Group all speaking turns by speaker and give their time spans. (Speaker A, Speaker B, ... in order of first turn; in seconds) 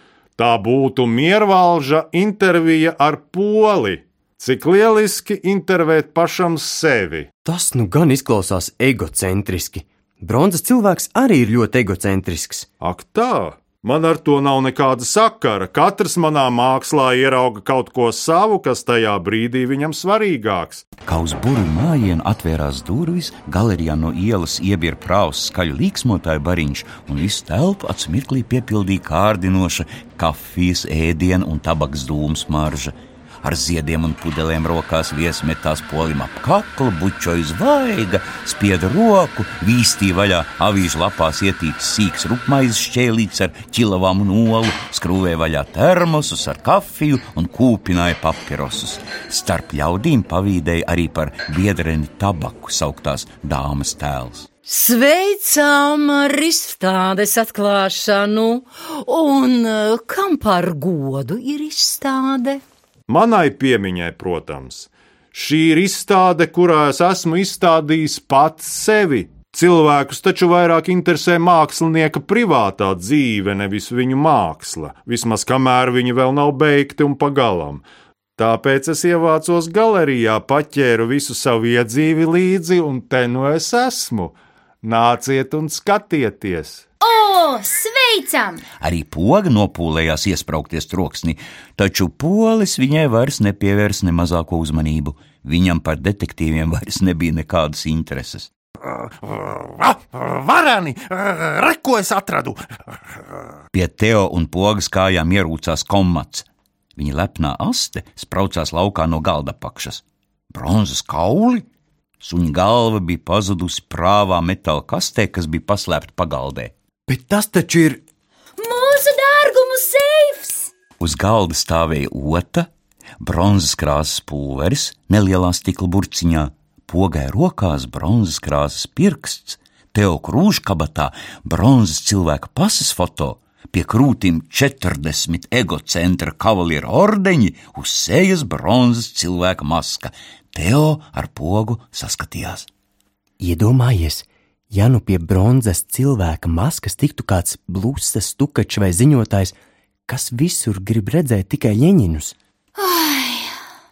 Speaker A: 0.4-7.3, 12.8-20.9, 63.1-77.8, 78.4-86.8
Speaker B: 7.5-12.7, 117.1-118.0, 143.4-149.5, 150.1-152.3
Speaker C: 21.1-54.5, 88.8-98.5, 103.7-106.5, 107.0-111.7, 112.2-116.7, 121.0-122.7, 123.2-142.7
Speaker D: 54.7-62.6
Speaker E: 87.0-88.6, 118.6-120.7, 152.8-153.6
Speaker F: 99.2-102.6